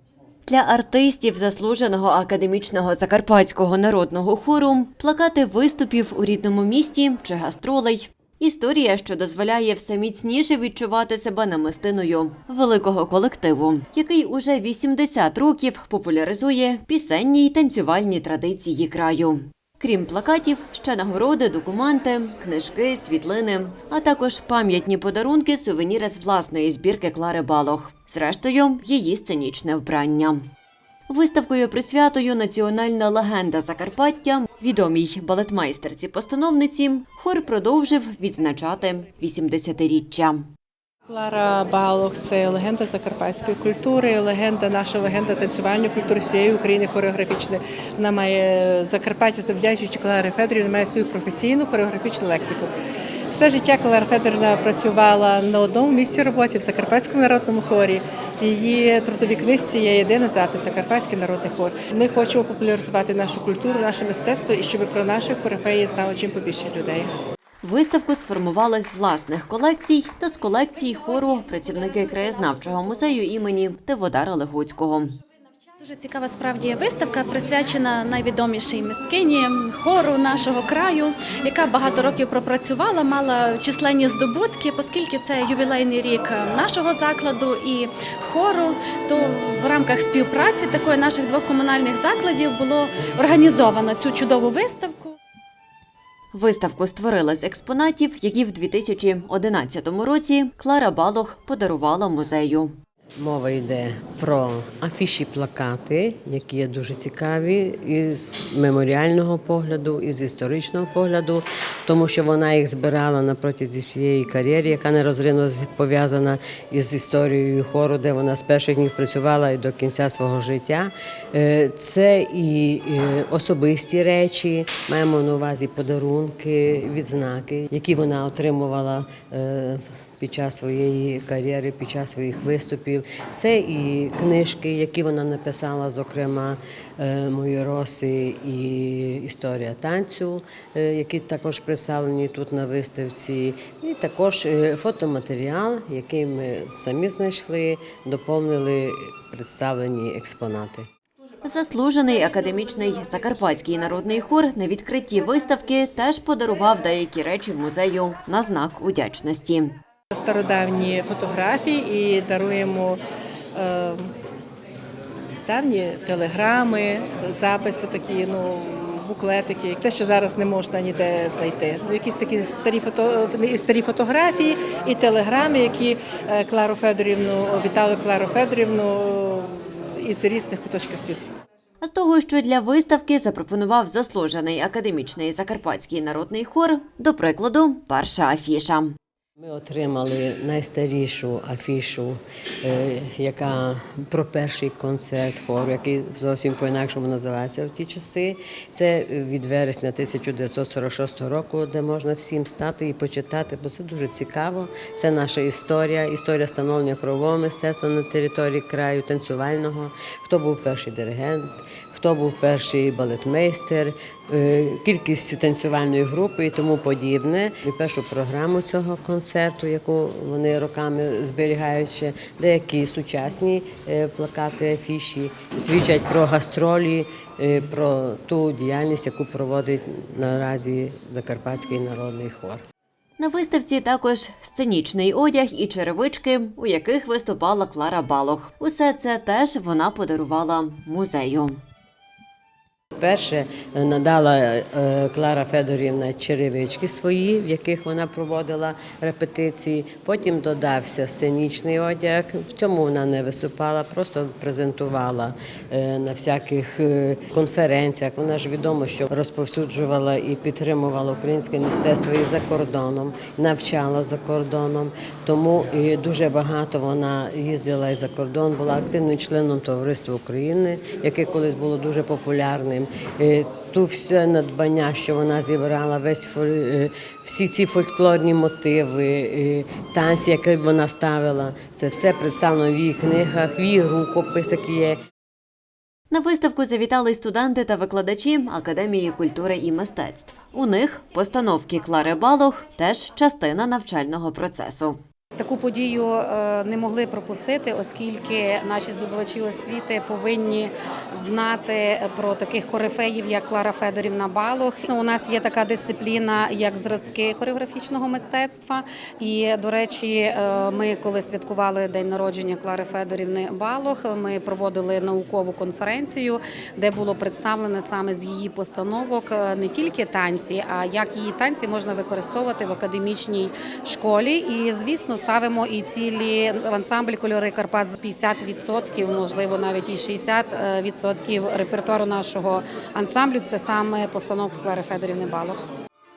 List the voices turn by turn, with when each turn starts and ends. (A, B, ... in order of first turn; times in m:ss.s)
0:00.4-0:30.5 A
0:31.1-0:40.5 A
0:41.1-0:52.7 B
0:53.3-1:07.1 B
1:07.6-1:15.1 A
1:15.8-1:35.2 C
1:36.3-1:42.7 A
1:43.2-2:30.8 D
2:31.4-2:39.7 A
2:40.1-2:43.0 B
2:43.5-2:44.1 B
2:45.4-3:01.2 B
3:01.8-3:08.9 A
3:09.4-3:52.6 D
3:53.2-4:01.6 A
4:03.0-4:45.0 D
4:46.1-4:55.0 A
4:55.4-5:35.6 E